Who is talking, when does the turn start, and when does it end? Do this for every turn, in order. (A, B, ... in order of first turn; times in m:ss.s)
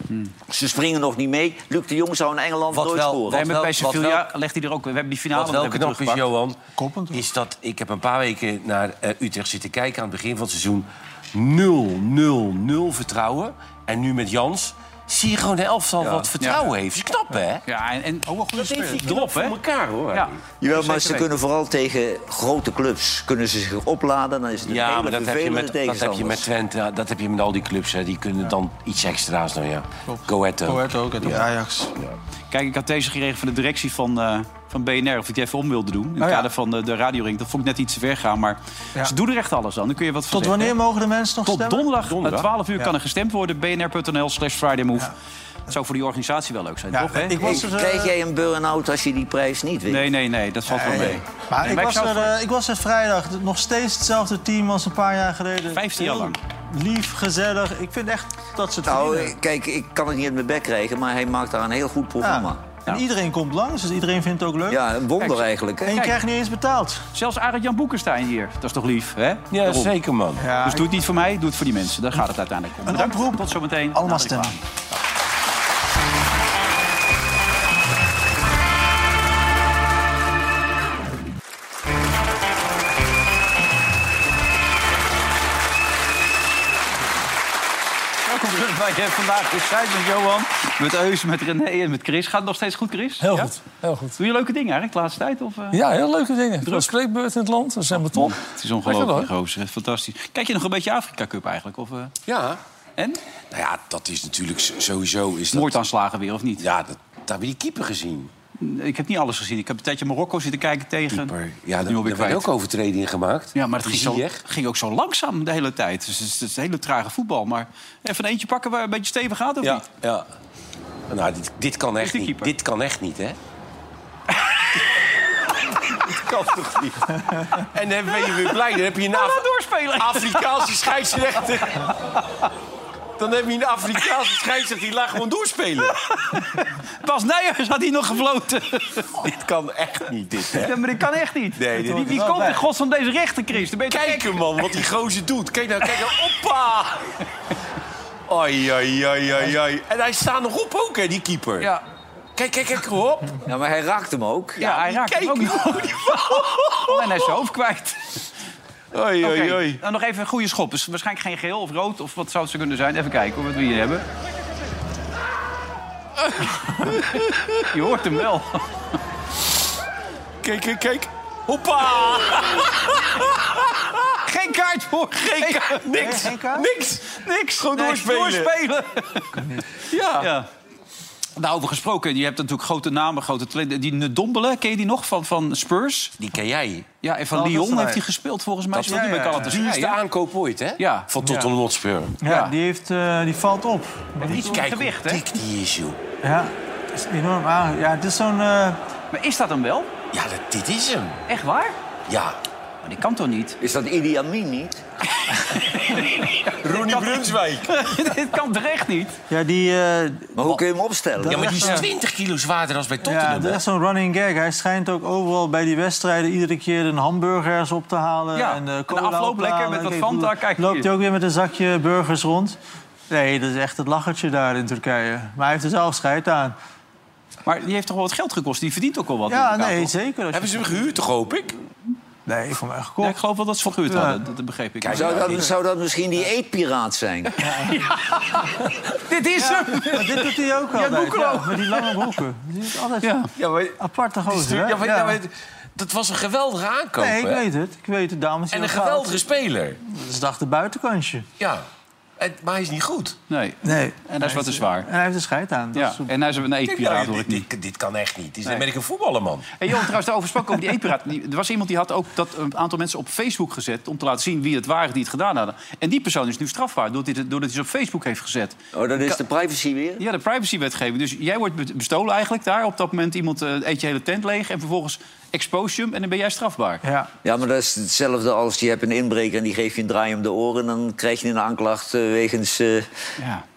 0:00.5-0:03.4 A
0:02.7-0:04.2 B
0:03.3-0:06.2 C
0:05.3-0:06.6 B
0:06.8-0:07.2 D
0:07.1-0:17.6 B
0:17.7-0:18.3 C
0:18.3-0:19.0 D
0:18.6-0:20.4 B
0:19.0-0:19.6 C
0:20.1-0:21.3 C
0:20.6-0:26.4 A
0:24.7-0:31.4 B
0:30.1-0:31.9 D
0:32.5-0:40.8 C
0:36.2-0:36.5 D
0:40.3-0:41.9 D
0:41.5-0:45.1 C
0:42.0-0:42.5 B
0:45.7-0:47.6 C
0:46.9-0:48.1 D
0:47.4-0:50.1 A
0:49.9-0:52.3 C
0:50.7-0:59.3 D
0:55.7-0:56.4 C
0:58.8-1:02.6 A
1:02.2-1:04.8 D
1:04.7-1:06.1 A
1:05.2-1:06.1 C
1:05.8-1:07.1 D
1:07.1-1:09.9 C
1:09.5-1:10.4 B
1:10.4-1:10.9 D
1:10.6-1:15.0 C
1:12.8-1:14.5 D
1:28.2-1:33.5 C
1:33.2-1:34.2 E
1:34.2-1:35.8 C
1:35.7-1:39.3 E
1:36.6-1:36.9 C
1:37.9-1:42.2 C
1:42.2-1:42.6 B
1:43.5-1:45.7 B
1:45.5-1:46.6 C
1:46.6-1:48.3 B
1:48.6-1:51.3 C
1:51.1-1:54.4 B
1:51.9-1:52.5 C
1:53.5-1:59.8 C
1:59.6-2:00.2 B
2:01.1-2:03.4 B
2:02.0-2:02.5 C
2:06.1-2:09.4 B
2:08.2-2:08.5 C
2:09.2-2:10.8 C
2:10.0-2:11.9 B
2:12.2-2:12.5 C
2:13.2-2:16.0 B
2:15.9-2:19.1 C
2:19.2-2:20.8 B
2:20.5-2:24.3 C
2:21.6-2:22.6 B
2:23.9-2:27.1 B
2:28.3-2:31.7 B
2:32.4-2:33.4 B
2:33.4-2:34.6 A
2:34.6-2:37.2 B
2:34.6-2:38.0 C
2:38.9-2:39.8 B
2:39.2-2:44.0 C
2:46.2-2:47.7 B
2:47.7-2:48.6 C
2:50.4-2:54.2 B
2:54.2-2:56.2 C
2:55.7-2:58.5 B
2:56.0-2:56.6 D
2:57.1-2:59.4 C
2:59.4-2:59.6 D
2:59.9-3:00.3 B
3:00.1-3:00.5 C
3:01.4-3:06.1 C
3:06.2-3:06.9 B
3:07.0-3:10.0 C
3:07.3-3:08.0 D
3:08.7-3:12.2 B
3:08.8-3:09.6 D
3:10.8-3:11.5 C
3:12.2-3:14.4 D
3:12.2-3:12.5 C
3:14.2-3:15.2 C
3:14.2-3:16.0 B
3:16.2-3:18.8 D
3:19.1-3:19.9 C
3:20.1-3:21.2 B
3:21.3-3:21.8 C
3:22.1-3:22.4 B
3:22.8-3:23.6 C
3:23.6-3:24.8 A
3:25.3-3:29.2 C
3:26.6-3:27.8 B
3:29.3-3:30.5 D
3:30.4-3:31.5 A
3:31.2-3:31.9 D
3:31.2-3:33.6 B
3:33.0-3:42.6 D
3:38.3-3:40.9 C
3:43.1-3:46.6 D
3:47.4-3:49.9 C
3:49.3-3:50.8 D
3:50.3-3:51.5 B
3:52.2-3:53.2 D
3:53.0-3:55.3 C
3:54.8-3:55.5 B
3:54.9-3:57.4 A
3:57.8-3:58.4 C
3:59.0-4:00.0 B
3:59.4-4:02.0 C
3:59.5-4:03.1 D
4:03.0-4:03.3 C
4:03.4-4:03.8 B
4:03.8-4:05.2 D
4:04.3-4:07.4 B
4:07.0-4:09.2 D
4:08.5-4:09.8 B
4:09.8-4:11.3 D
4:11.4-4:11.6 B
4:12.2-4:13.2 B
4:13.3-4:14.9 C
4:13.6-4:16.1 D
4:15.7-4:17.5 C
4:16.6-4:19.5 B
4:19.6-4:29.2 C
4:28.7-4:30.0 A
4:30.0-4:36.8 C
4:36.8-4:37.1 D
4:37.2-4:42.9 A
4:43.2-4:43.4 C